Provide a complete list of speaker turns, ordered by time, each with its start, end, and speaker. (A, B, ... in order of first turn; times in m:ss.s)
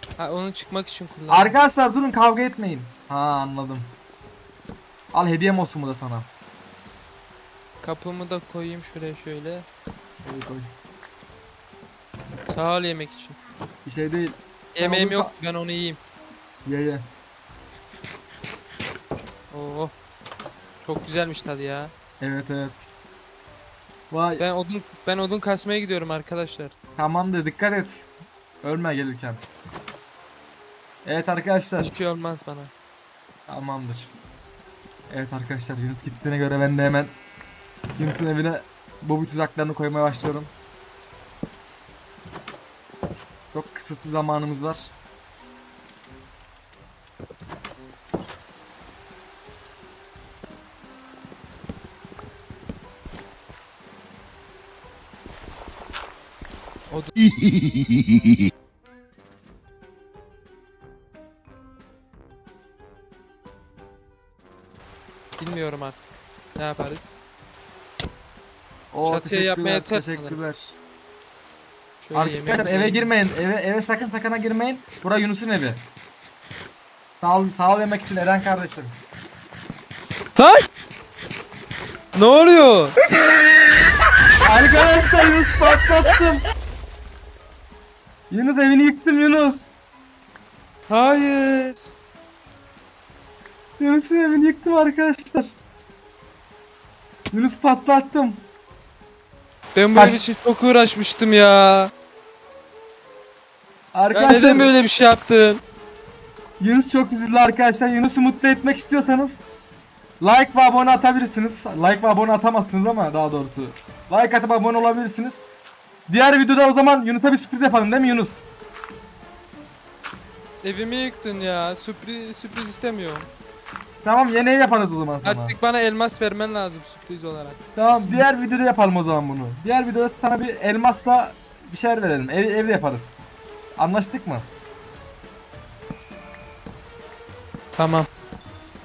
0:00.2-0:01.5 A
0:01.3-0:03.9 B
0:05.1-0:06.3 B
0:07.8-0:09.7 A
0:10.2-0:10.7 B
0:12.5-0:13.4 A
0:13.8-0:15.3 B
0:14.7-0:16.0 A
0:16.6-0:17.0 B
0:19.5-0:19.9 A
0:20.8-0:21.9 A
0:22.2-0:22.9 B
0:24.1-0:24.4 B
0:24.4-0:26.7 A
0:27.0-0:28.1 B
0:28.6-0:29.4 B
0:31.0-0:31.9 B
0:31.8-0:32.7 A
0:33.5-0:34.1 B
0:35.1-0:37.1 B
0:38.0-0:40.5 B
0:43.5-0:44.9 B
1:05.4-1:07.2 A
1:08.9-1:10.8 B
1:09.0-1:10.4 A
1:12.0-1:13.1 A
1:12.1-1:15.8 B
1:17.1-1:19.0 B
1:20.4-1:20.6 A
1:22.1-1:23.0 A
1:24.4-1:26.4 B
1:28.3-1:29.7 B
1:30.9-1:31.9 A
1:33.8-1:35.6 B
1:37.3-1:38.4 B
1:39.7-1:41.9 A
1:39.9-1:40.2 B
1:43.9-1:44.7 B
1:44.1-1:45.6 A
1:46.6-1:49.4 B
1:50.2-1:55.4 B
1:56.1-1:58.4 B
2:00.6-2:03.3 A
2:04.0-2:05.6 B
2:05.2-2:08.3 A
2:07.8-2:13.2 B
2:13.8-2:14.5 B
2:17.7-2:18.1 A